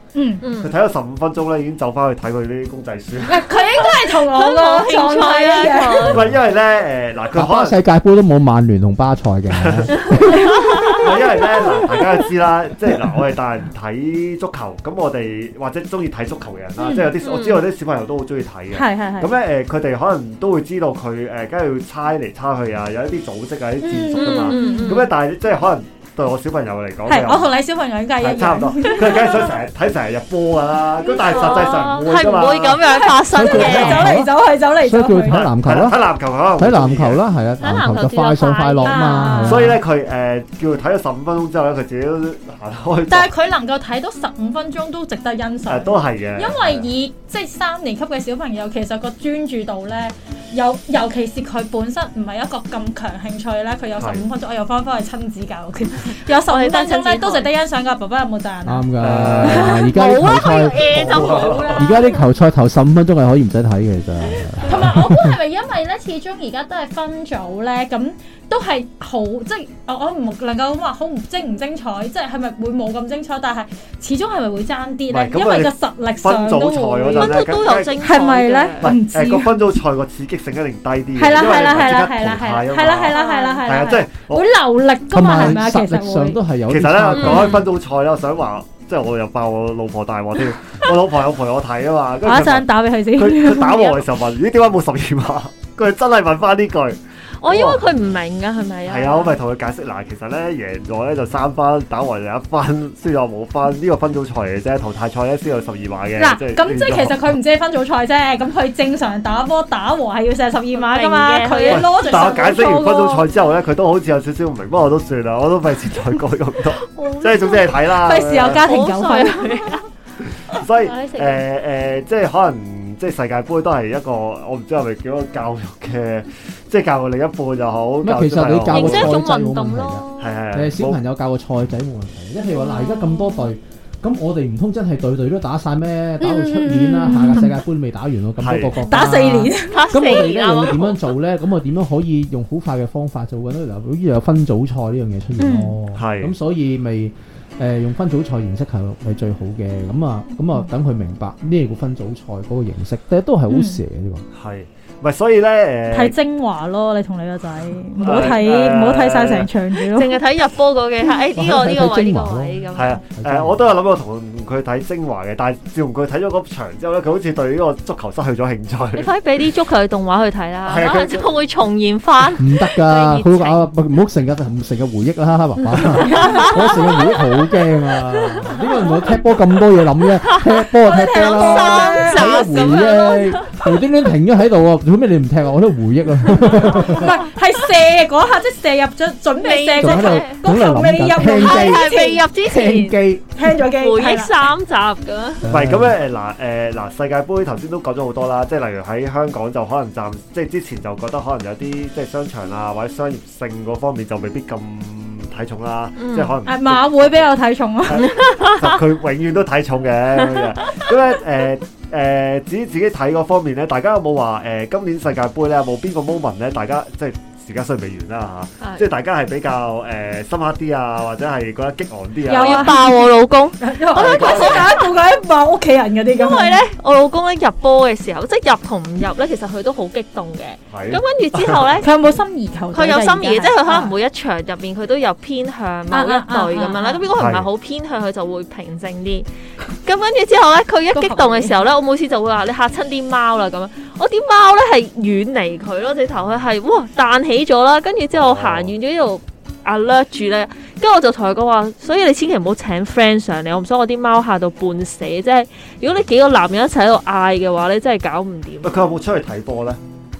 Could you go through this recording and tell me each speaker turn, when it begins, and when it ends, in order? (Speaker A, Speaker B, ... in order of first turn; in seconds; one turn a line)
Speaker A: 0.1-0.4
Speaker B: 0.4-0.7
Speaker C: 0.6-3.6
Speaker A: 3.2-6.2
Speaker B: 3.7-6.3
Speaker C: 6.0-7.8
Speaker D: 6.1-6.3
Speaker D: 7.3-11.0
Speaker C: 9.5-10.2
Speaker B: 10.0-11.1
Speaker A: 10.3-10.9
Speaker C: 11.0-27.5
Speaker A: 16.8-17.1
Speaker B: 17.2-17.6
Speaker A: 18.7-19.3
Speaker A: 23.8-25.1
Speaker B: 24.1-25.1
Speaker A: 27.1-29.6
Speaker C: 28.2-32.8
Speaker A: 31.1-31.8
Speaker B: 31.1-34.1
Speaker A: 32.8-35.5
Speaker D: 33.3-36.0
Speaker C: 35.3-37.2
Speaker D: 36.6-39.8
Speaker B: 37.6-39.6
Speaker A: 38.8-39.7
Speaker C: 39.4-43.3
Speaker A: 43.1-58.9
Speaker C: 45.6-46.9
Speaker C: 54.0-54.2
Speaker B: 56.2-57.5
Speaker D: 58.6-65.3
Speaker C: 59.0-59.8
Speaker B: 59.4-62.2
Speaker A: 59.4-59.7
Speaker C: 60.9-61.9
Speaker A: 61.2-62.1
Speaker A: 64.6-77.4
Speaker C: 75.1-78.0
Speaker B: 77.1-78.9
Speaker A: 78.0-79.6
Speaker C: 78.8-84.5
Speaker A: 81.2-86.4
Speaker B: 83.1-83.6
Speaker D: 85.1-87.6
Speaker C: 86.7-97.8
Speaker B: 87.1-87.7
Speaker A: 92.2-94.0
Speaker B: 97.4-99.4
Speaker C: 98.9-107.3
Speaker A: 106.2-113.3
Speaker B: 110.7-112.4
Speaker C: 111.7-118.6
Speaker B: 116.9-119.9
Speaker A: 117.8-119.8
Speaker C: 120.3-129.2
Speaker B: 120.5-121.4
Speaker D: 128.0-154.2
Speaker B: 128.7-130.3
Speaker C: 130.2-131.0
Speaker A: 132.5-133.5
Speaker A: 136.2-137.6
Speaker C: 138.4-138.8
Speaker A: 138.9-139.9
Speaker B: 139.6-141.1
Speaker A: 145.4-145.7
Speaker C: 145.9-146.3
Speaker A: 153.5-153.8
Speaker C: 154.3-156.2
Speaker A: 155.9-160.2
Speaker C: 158.0-159.5
Speaker B: 159.9-163.0
Speaker D: 161.3-163.7
Speaker C: 162.7-169.1
Speaker B: 168.9-173.7
Speaker C: 170.7-171.3
Speaker D: 172.4-187.1
Speaker B: 175.7-176.9
Speaker A: 176.1-176.7
Speaker B: 180.3-183.7
Speaker A: 180.8-182.9
Speaker A: 186.4-192.2
Speaker B: 189.4-190.4
Speaker D: 189.8-193.2
Speaker B: 191.2-193.0
Speaker A: 193.3-194.5
Speaker B: 193.6-195.4
Speaker D: 195.4-195.9
Speaker C: 195.5-207.3
Speaker B: 206.0-206.3
Speaker A: 206.4-208.1
Speaker C: 207.8-222.8
Speaker B: 208.0-208.8
Speaker B: 210.3-210.7
Speaker A: 222.3-226.6
Speaker B: 222.3-224.9
Speaker C: 223.9-224.7
Speaker B: 226.2-231.9
Speaker C: 230.7-231.7
Speaker A: 231.8-233.9
Speaker B: 232.7-239.3
Speaker A: 235.9-237.1
Speaker C: 237.2-237.5
Speaker B: 239.8-258.7
Speaker A: 240.9-241.6
Speaker C: 248.1-248.7
Speaker C: 258.6-259.8